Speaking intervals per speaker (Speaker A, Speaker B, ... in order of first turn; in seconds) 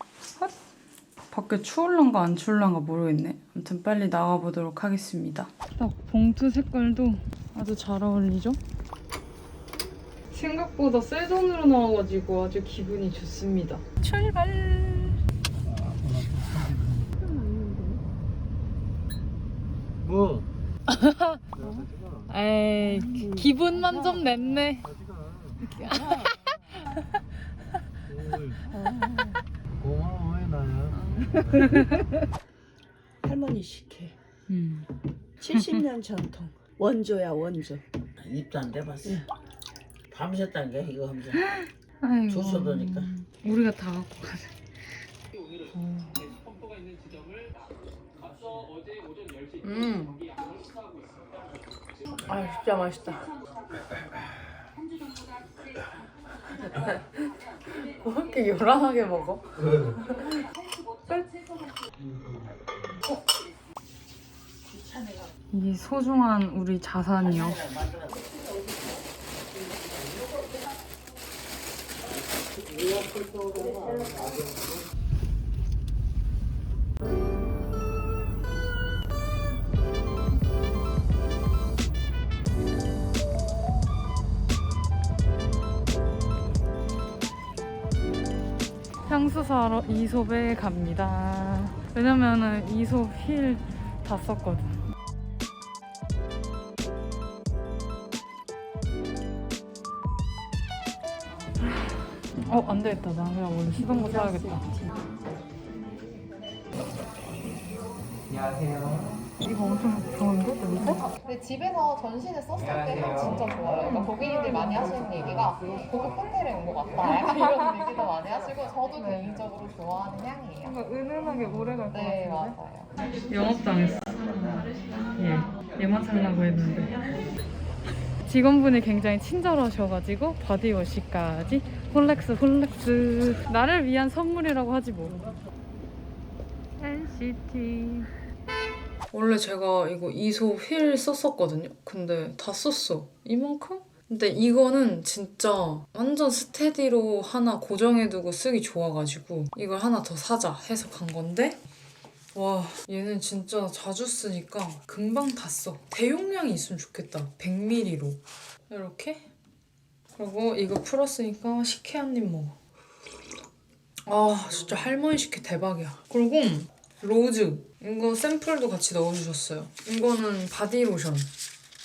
Speaker A: 1.3-8.6, 10.3-15.2, 20.9-21.4, 22.3-24.9, 25.6-27.1, 31.5-32.1, 34.5-34.9, 35.5-35.9, 41.3-44.6, 45.6-46.3, 49.6-50.2, 52.3-53.4, 56.5-60.4, 65.5-67.7, 89.0-94.8, 101.9-104.9, 109.4-111.1, 113.7-114.9, 117.1-118.0, 120.6-122.6, 123.2-127.0, 128.2-135.4, 136.8-138.1, 139.1-151.6, 152.3-159.3, 160.2-162.6, 164.1-171.3
Speaker B: 15.7-17.1, 20.0-20.5, 21.6-22.3, 24.8-25.6, 28.1-28.6, 29.8-31.7
Speaker C: 17.2-18.0, 23.2-23.5, 28.7-29.4, 33.2-34.2, 35.4-37.8
Speaker D: 38.2-39.2, 40.1-41.4, 42.3-43.1
Speaker E: 111.2-113.7, 114.9-120.5